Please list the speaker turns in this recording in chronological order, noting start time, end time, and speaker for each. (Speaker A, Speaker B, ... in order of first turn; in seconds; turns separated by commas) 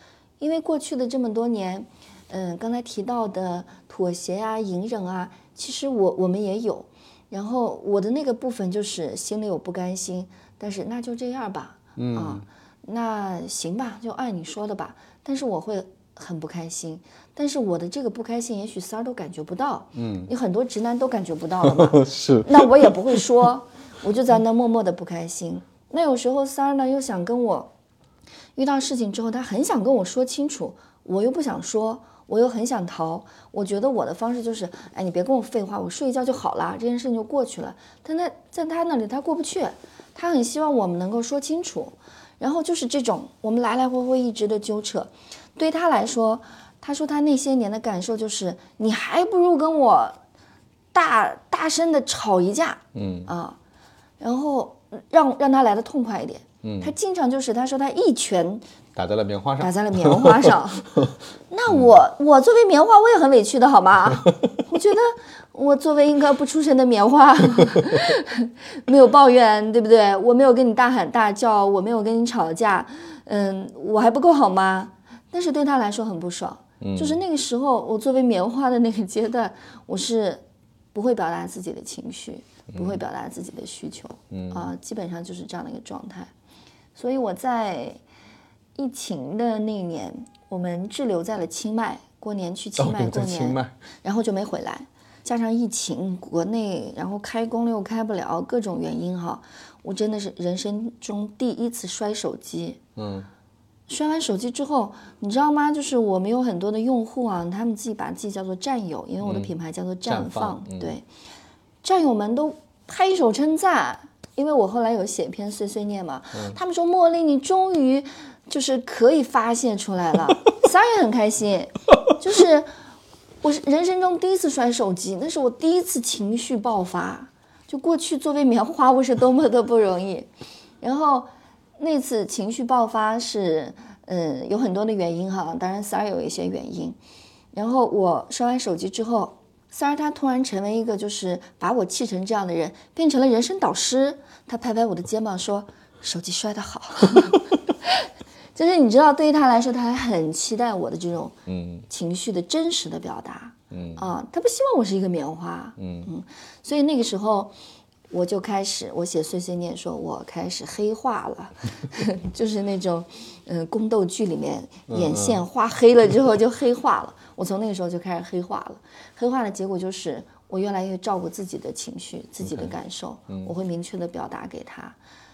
Speaker A: 0.4-27.7, Speaker B: 12.0-12.4, Speaker B: 19.9-20.3, Speaker B: 21.6-23.2, Speaker A: 28.6-50.2, Speaker A: 50.9-53.6, Speaker B: 52.9-53.3, Speaker A: 54.2-58.6, Speaker B: 56.6-56.9, Speaker B: 59.0-61.1, Speaker A: 59.6-80.4, Speaker B: 76.8-77.2, Speaker A: 80.9-86.3, Speaker B: 82.7-83.0, Speaker B: 84.3-84.7, Speaker A: 87.0-88.0, Speaker A: 88.8-102.8, Speaker B: 92.8-93.8, Speaker B: 103.0-103.3, Speaker A: 103.9-111.0, Speaker B: 109.2-109.5, Speaker B: 110.1-111.0, Speaker A: 111.8-122.7, Speaker A: 123.4-130.3, Speaker A: 130.8-137.0, Speaker A: 137.5-157.5, Speaker B: 151.5-151.9, Speaker B: 153.7-154.1, Speaker B: 155.8-156.1, Speaker A: 158.1-175.0, Speaker B: 164.9-165.4, Speaker B: 172.4-172.7